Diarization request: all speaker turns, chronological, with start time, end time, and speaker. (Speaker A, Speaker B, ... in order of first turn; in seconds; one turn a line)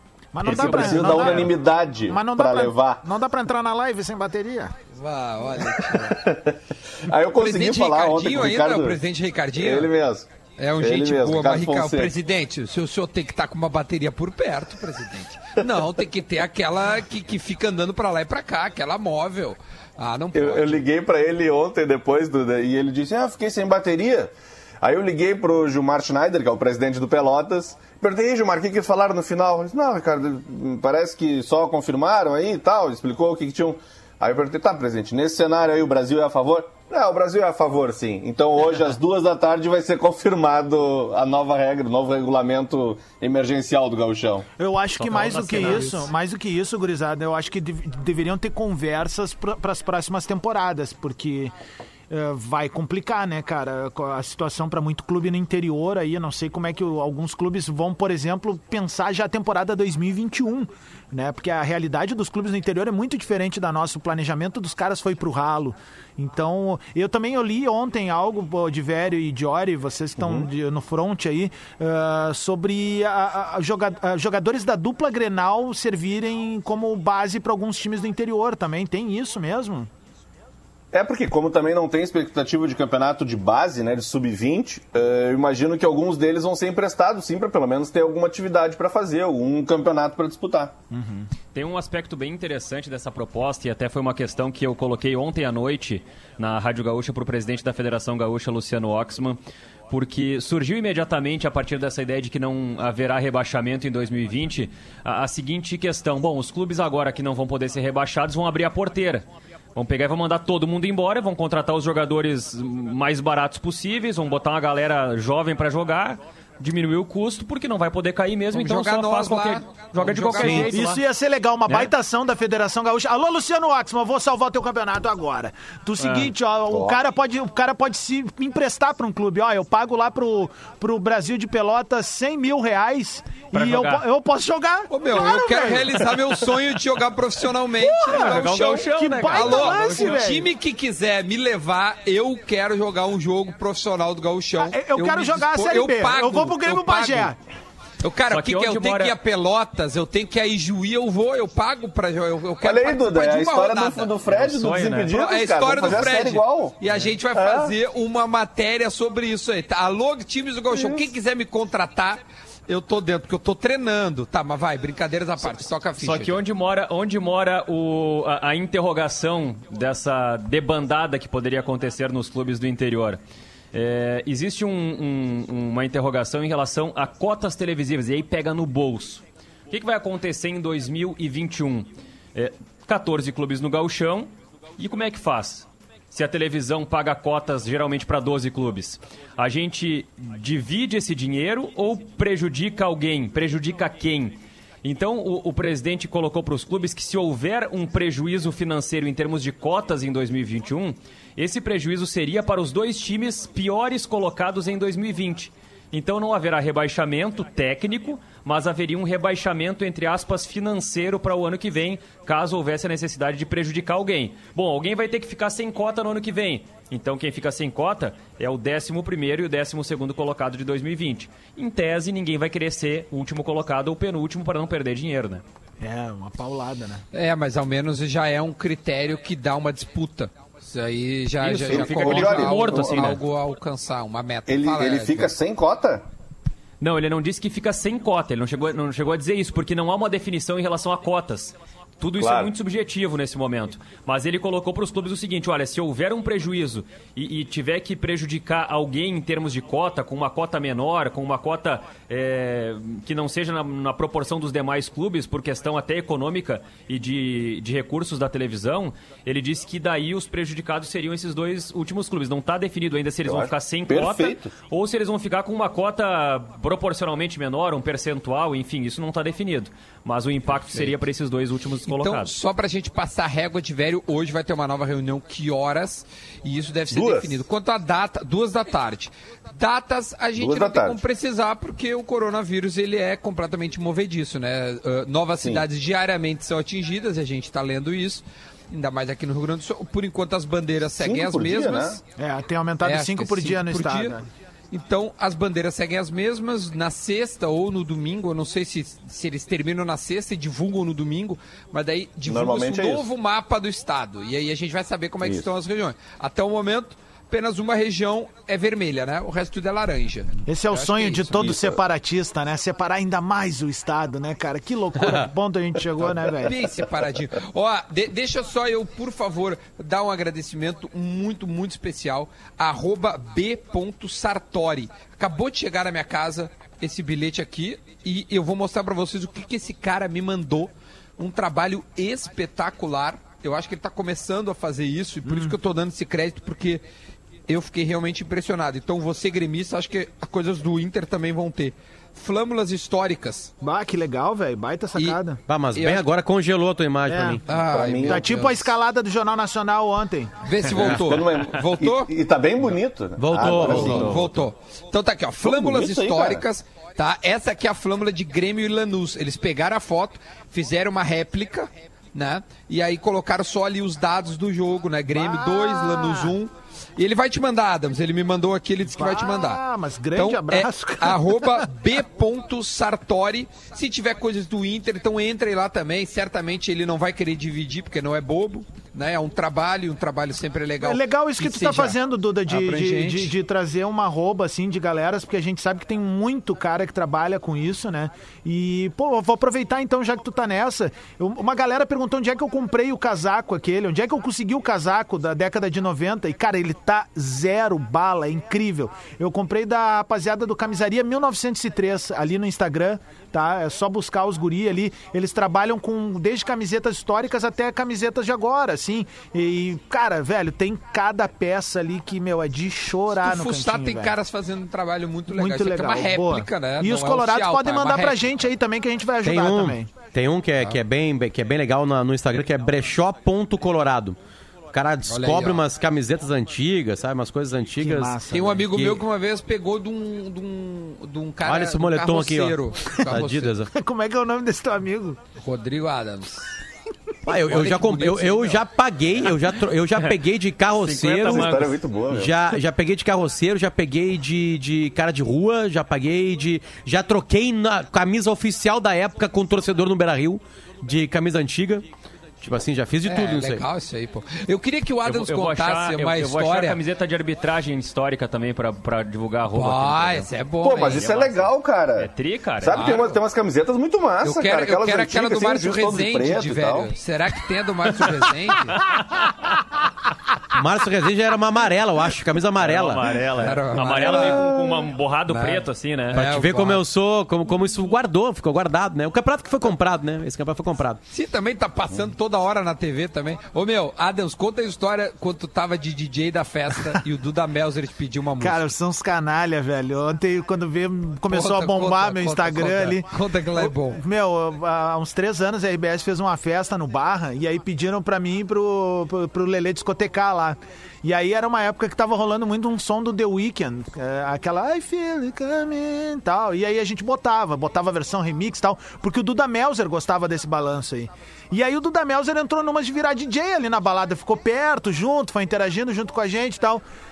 Speaker A: 0.3-1.6
Speaker B: 0.5-1.5
Speaker C: 0.5-3.0
Speaker A: 2.1-4.7
Speaker D: 4.9-6.1
Speaker C: 5.6-9.0
Speaker D: 7.4-9.9
Speaker C: 9.6-10.3
Speaker D: 10.6-20.8
Speaker C: 10.8-12.1
Speaker C: 20.3-44.5
Speaker A: 44.6-51.5
Speaker B: 45.0-46.1
Speaker A: 52.1-79.9
Speaker C: 70.2-70.5
Speaker C: 80.9-90.7
Speaker A: 90.9-91.3
Speaker B: 91.5-99.4
Speaker B: 99.9-121.0
Speaker D: 118.5-120.8
Speaker A: 120.5-135.9
Speaker B: 126.0-126.3
Speaker C: 126.7-127.0
Speaker B: 133.5-134.1
Speaker D: 134.9-147.3
Speaker A: 137.8-140.5
Speaker B: 138.1-140.4
Speaker A: 144.6-147.3
Speaker D: 148.0-154.1
Speaker B: 148.3-149.2
Speaker C: 152.6-156.8
Speaker B: 154.3-155.2
Speaker D: 155.1-166.4
Speaker C: 157.3-157.7
Speaker C: 160.7-161.1
Speaker B: 166.0-173.2
Speaker B: 173.7-225.4
Speaker A: 225.8-227.0
Speaker D: 227.1-235.3
Speaker B: 231.4-233.2
Speaker C: 231.7-233.2
Speaker C: 234.5-236.1
Speaker B: 236.8-272.3
Speaker C: 242.2-242.5
Speaker C: 263.2-264.5
Speaker D: 271.9-292.0
Speaker C: 276.9-277.4
Speaker C: 280.4-281.0
Speaker C: 291.0-292.0
Speaker A: 292.2-294.2
Speaker D: 292.8-294.2
Speaker D: 294.7-311.4
Speaker C: 302.2-303.1
Speaker A: 310.5-316.6
Speaker C: 311.4-311.8
Speaker D: 316.4-336.8
Speaker A: 335.3-335.6
Speaker D: 337.5-343.5
Speaker A: 343.6-345.4
Speaker E: 345.5-347.4
Speaker D: 345.8-346.1
Speaker A: 347.1-347.4
Speaker D: 347.5-348.7
Speaker C: 347.5-348.4
Speaker A: 348.1-350.4
Speaker D: 350.4-352.1
Speaker C: 350.7-354.4
Speaker E: 353.2-354.1
Speaker D: 353.4-369.6
Speaker C: 355.4-356.4
Speaker A: 365.1-366.4
Speaker A: 368.9-371.6
Speaker D: 370.1-383.3
Speaker A: 380.8-414.2
Speaker D: 413.2-418.3
Speaker A: 415.3-419.9
Speaker E: 419.2-424.2
Speaker E: 424.7-429.0
Speaker D: 425.1-425.7
Speaker A: 427.8-428.6
Speaker D: 428.3-433.6
Speaker E: 431.4-433.7
Speaker A: 433.7-435.2
Speaker D: 435.4-436.5
Speaker E: 437.3-441.6
Speaker D: 437.3-438.6
Speaker B: 440.7-441.8
Speaker C: 441.2-442.3
Speaker E: 442.1-451.9
Speaker E: 452.4-453.6
Speaker D: 453.0-456.8
Speaker B: 455.0-460.3
Speaker D: 459.5-461.2
Speaker C: 460.6-466.9
Speaker B: 460.9-463.0
Speaker D: 462.7-463.2
Speaker D: 464.2-468.8
Speaker B: 468.8-469.3
Speaker E: 470.5-473.1
Speaker B: 472.6-476.2
Speaker D: 473.4-474.5
Speaker C: 474.0-474.9
Speaker D: 475.3-476.8
Speaker E: 476.1-481.0
Speaker D: 481.1-488.7
Speaker A: 488.4-516.8
Speaker D: 491.3-494.0